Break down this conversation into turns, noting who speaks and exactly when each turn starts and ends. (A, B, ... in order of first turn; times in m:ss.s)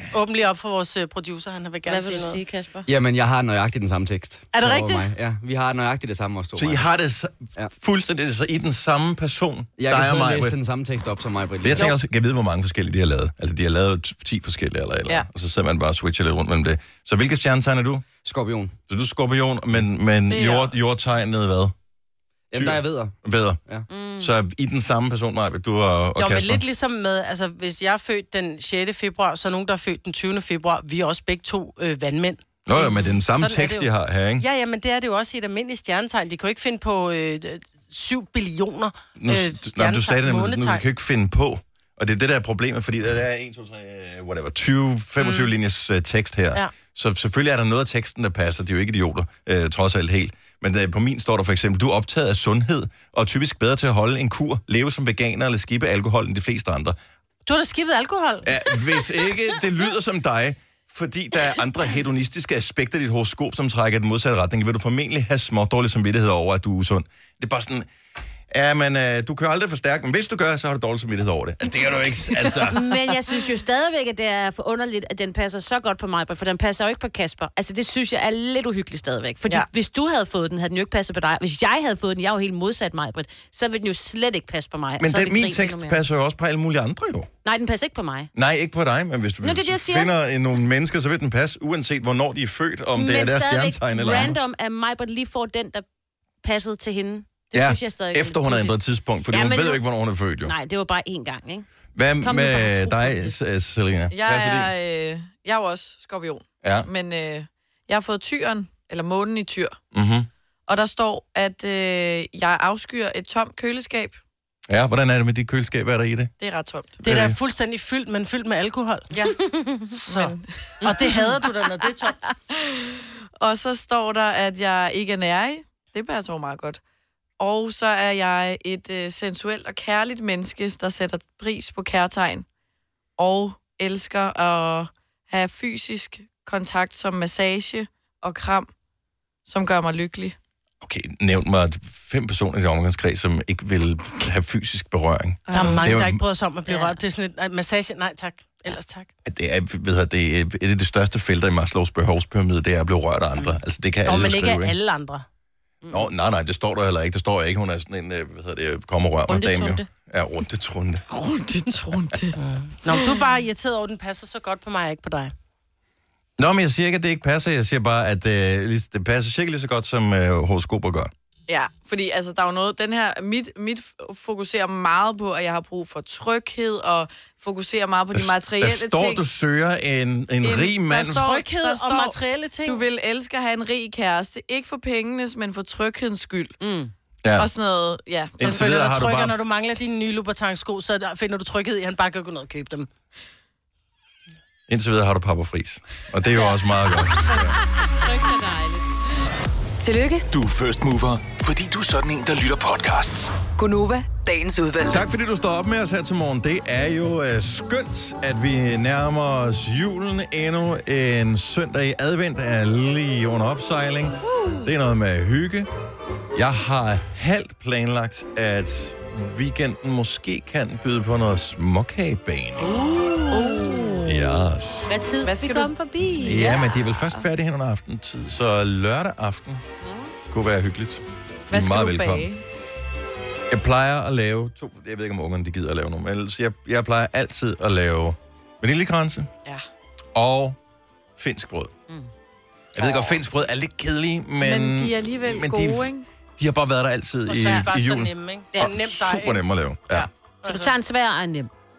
0:00.1-0:02.4 A
0:01.8-0:02.9 B
0:02.8-0:06.8 C
0:04.5-0:05.1 A
0:06.6-0:10.6 D
0:09.8-0:11.9 C
0:11.6-0:18.0 D
0:18.2-0:18.7 C
0:18.9-0:21.7 D
0:20.3-0:20.8 E
0:22.5-0:23.1 C
0:22.5-0:23.6 D
0:23.9-0:24.3 B
0:24.2-0:26.6 D
0:26.2-0:40.8 A
0:32.6-0:34.4 D
0:39.2-0:57.0 D
0:45.2-0:45.5 A
0:57.4-0:58.6 A
0:58.4-1:07.9 D
1:08.5-1:12.8 D
1:12.5-1:26.0 B
1:25.0-1:27.3 D
1:27.4-1:28.3 B
1:28.3-1:34.4 D
1:29.4-1:30.1 B
1:32.9-1:35.8 B
1:36.4-1:38.8 B
1:37.5-1:40.5 D
1:39.3-1:39.8 B
1:40.4-1:41.7 B
1:41.9-1:44.7 D
1:42.2-1:43.4 B
1:44.1-1:49.8 E
1:46.6-1:46.9 D
1:49.9-1:50.3 D
1:50.7-1:54.2 E
1:54.7-1:56.3 D
1:56.4-1:57.0 E
1:57.0-1:57.4 D
1:57.0-1:59.1 A
1:59.1-1:59.4 E
1:59.4-1:59.8 B
1:59.9-2:02.2 A
2:00.1-2:00.4 E
2:02.5-2:06.8 E
2:07.4-2:12.4 E
2:13.2-2:18.7 E
2:19.4-2:20.4 E
2:20.8-2:26.2 D
2:25.5-2:25.9 E
2:25.5-2:29.1 A
2:26.7-2:27.0 B
2:29.2-2:34.8 D
2:33.4-2:35.2 A
2:35.8-2:36.1 B
2:35.9-2:41.0 D
2:39.3-2:39.9 B
2:41.1-2:42.4 E
2:42.4-2:45.3 A
2:46.4-2:51.1 D
2:51.5-2:59.2 E
2:58.1-3:01.3 D
3:00.4-3:06.6 E
3:01.1-3:02.8 A
3:06.6-3:06.9 B
3:07.2-3:07.5 D
3:07.4-3:08.9 E
3:08.4-3:09.3 D
3:08.4-3:12.9 A
3:14.7-3:17.6 D
3:16.3-3:18.9 B
3:19.8-3:20.2 F
3:20.3-3:23.3 G
3:23.6-3:25.1 F
3:24.8-3:35.7 D
3:36.3-3:42.9 D
3:42.6-3:44.1 B
3:42.7-3:44.1 E
3:44.0-3:44.9 D
3:44.9-3:46.6 B
3:45.2-3:45.7 E
3:46.2-3:49.6 D
3:46.2-3:47.2 E
3:49.8-3:50.1 B
3:50.3-3:52.3 D
3:51.5-3:52.4 E
3:53.5-3:59.3 D
4:00.1-4:00.6 D
4:01.2-4:01.7 D
4:02.7-4:10.1 D
4:04.4-4:06.0 E
4:07.3-4:09.4 A
4:10.4-4:10.7 A
4:10.4-4:11.5 B